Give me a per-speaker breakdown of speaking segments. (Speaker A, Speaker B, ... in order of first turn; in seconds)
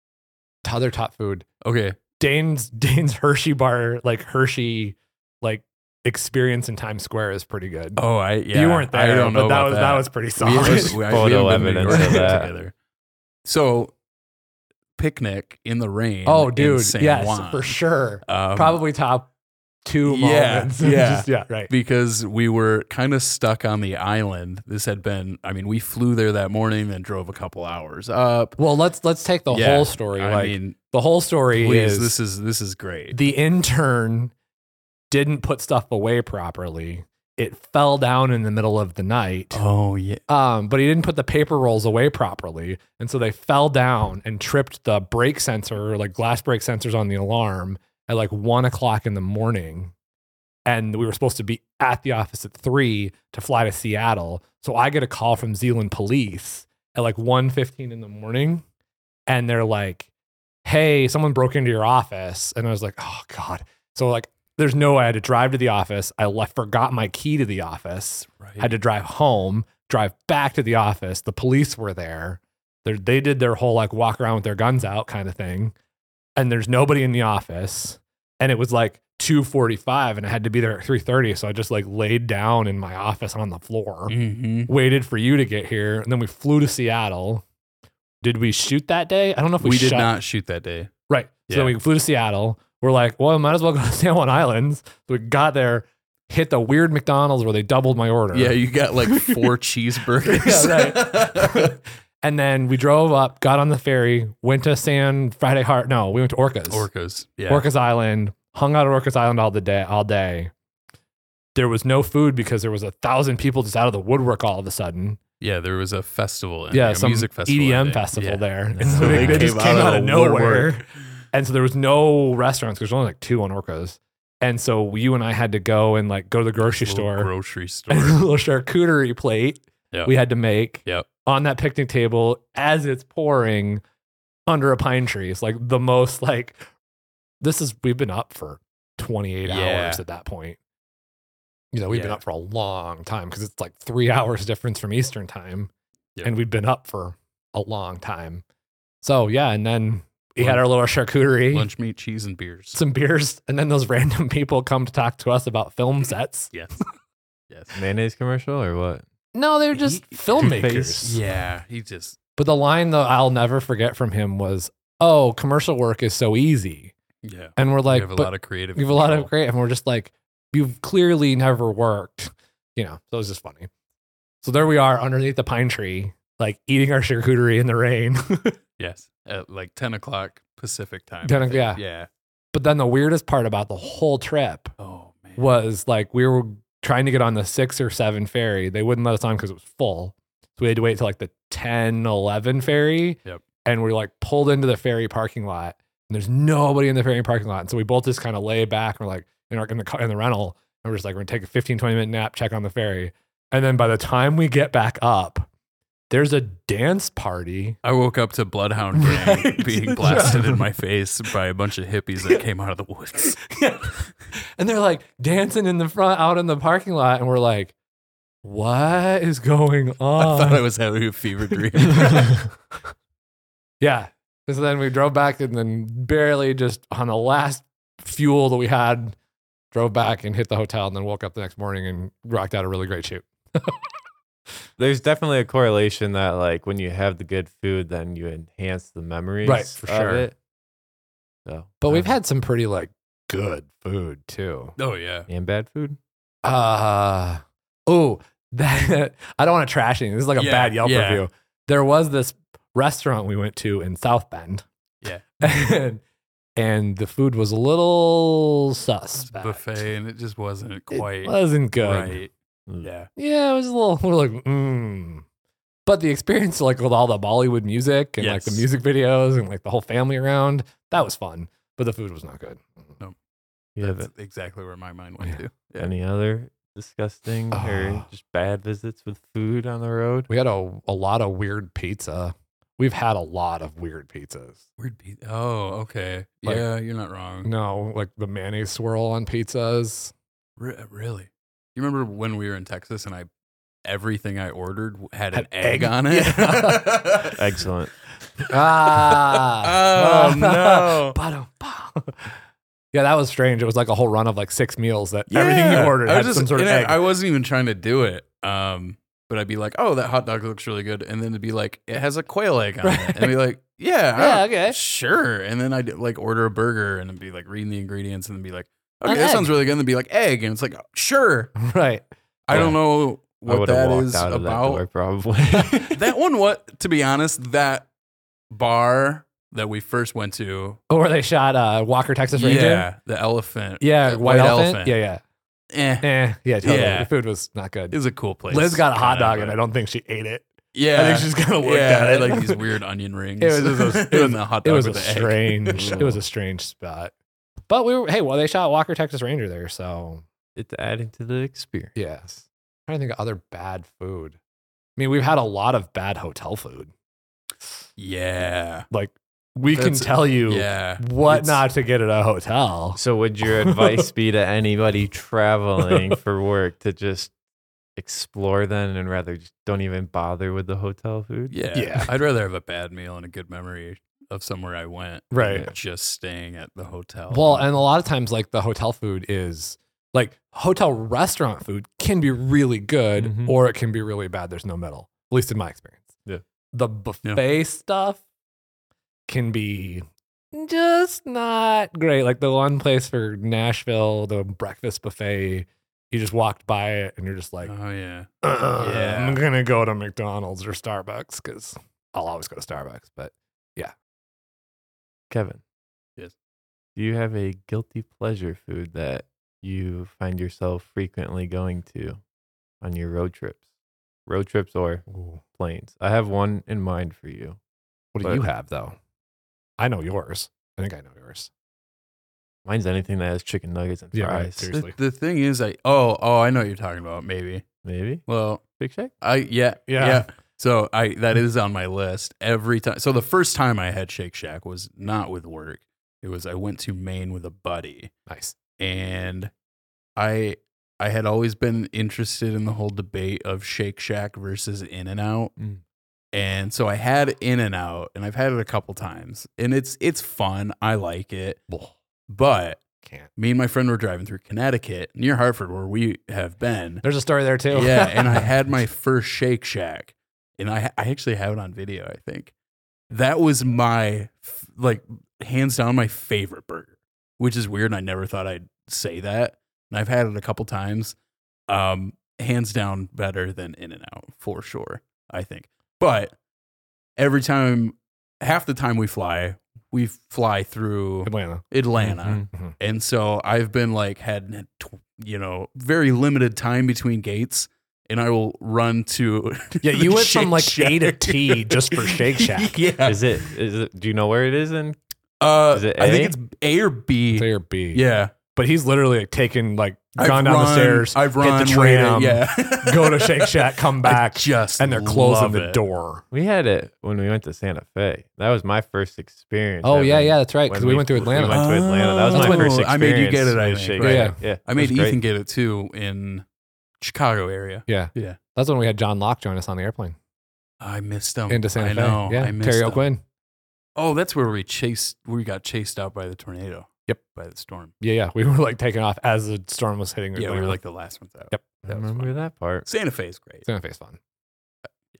Speaker A: 0.7-1.5, 2.2-12.4, 16.2-19.3, 19.9-21.7, 28.6-32.1, 33.1-34.3, 35.1-39.6, 40.3-49.9, 50.7-58.6, 59.3-60.1, 60.6-75.7, 76.4-84.2, 84.7-87.4, 88.2-90.1, 91.1-98.6, 99.1-99.5, 100.2-106.9, 107.5-110.5, 111.6-115.2, 116.7-127.3, 127.9-133.8, 134.5-136.6, 137.4-140.6, 141.7-145.7, 146.2-148.4, 149.0-151.7, 152.7-156.5, 159.3-161.2, 162.4-166.9, 167.6-173.7, 174.4-178.6, 181.2-181.8, 182.5-184.7, 185.4-205.5, 206.1-207.8, 208.9-210.7, 213.4-214.1, 214.6-217.7, 218.4-220.6, 221.8-222.5, 223.8-229.2, 229.7-233.8, 239.4-240.2, 241.8-244.8, 246.4-254.7, 255.4-256.0, 256.6-259.9, 260.9-262.2, 263.2-265.2, 265.9-272.9, 277.5-278.1, 280.3-284.6, 287.4-290.1, 295.3-297.3, 298.4-302.3, 302.9-307.0, 312.8-313.3, 314.2-314.8, 319.1-319.5, 321.6-322.1, 330.9-332.9, 333.8-335.2, 336.0-338.0, 338.5-342.6, 343.4-347.1, 347.7-350.2, 351.9-354.4, 355.0-356.9, 358.9-363.0, 363.6-364.0, 371.7-372.1, 375.3-375.7, 377.3-386.1, 386.7-388.2, 389.3-397.7, 398.4-403.9, 415.1-415.4, 418.1-419.0, 419.8-421.5, 424.1-424.9, 429.9-430.3, 438.3-438.6, 451.7-451.9, 453.0-453.3, 457.0-458.5, 481.2-481.6, 482.5-482.8, 489.8-492.8, 497.3-498.0, 498.5-506.2, 509.8-511.7, 512.3-512.8, 514.0-514.4, 517.9-520.2, 521.5-523.2, 528.0-530.8, 533.7-534.2
Speaker B: 1.6-2.0, 8.0-12.7, 13.4-13.9, 15.0-18.8, 20.1-28.6, 29.5-30.8, 31.5-33.2, 39.5-40.2, 68.4-68.7, 84.1-84.7, 89.6-90.9, 91.5-91.7, 98.3-101.8, 106.7-107.7, 115.4-120.8, 126.6-128.2, 139.4-140.0, 141.9-142.2, 150.4-150.7, 151.5-152.8, 156.5-156.8, 157.5-157.8, 159.8-162.2, 167.2-169.3, 178.8-182.1, 184.8-185.5, 207.8-213.4, 220.2-222.4, 239.9-240.2, 244.8-245.3, 250.4-251.2, 255.0-255.3, 259.2-263.1, 268.2-268.6, 273.8-275.9, 284.8-287.5, 290.6-293.3, 293.9-297.4, 298.9-301.2, 305.3-321.5, 322.5-324.8, 325.8-327.9, 328.5-330.8, 332.4-335.0, 335.7-336.1, 336.6-337.1, 337.9-339.6, 340.7-346.0, 358.0-358.9, 359.7-361.6, 371.5-377.7, 397.6-399.4, 424.7-427.6, 428.3-428.6, 429.2-438.1, 438.8-439.5, 440.2-445.5, 446.3-451.6, 452.3-452.8, 453.4-457.0, 457.7-462.5, 463.1-471.1, 471.7-476.4, 477.2-493.4, 495.4-498.3, 500.2-505.8, 511.5-516.5, 517.0-518.4, 520.8-523.1, 524.0-527.9, 530.4-532.3, 532.9-533.7
Speaker C: 11.1-12.5, 118.8-120.3, 157.7-159.0, 160.4-161.1, 234.8-240.3, 241.4-242.1, 245.3-246.0, 273.8-274.1, 275.8-280.3, 297.4-297.9, 322.5-322.8, 323.5-326.0, 345.8-346.2, 350.6-352.0, 362.9-367.3, 368.0-371.5, 383.2-383.5, 405.3-405.6, 407.0-412.2, 412.8-413.6, 414.3-415.1, 415.6-417.6, 422.6-424.7, 427.8-428.2, 428.8-429.1, 482.0-482.5, 493.1-495.0, 495.7-496.4, 506.3-515.2, 531.9-532.9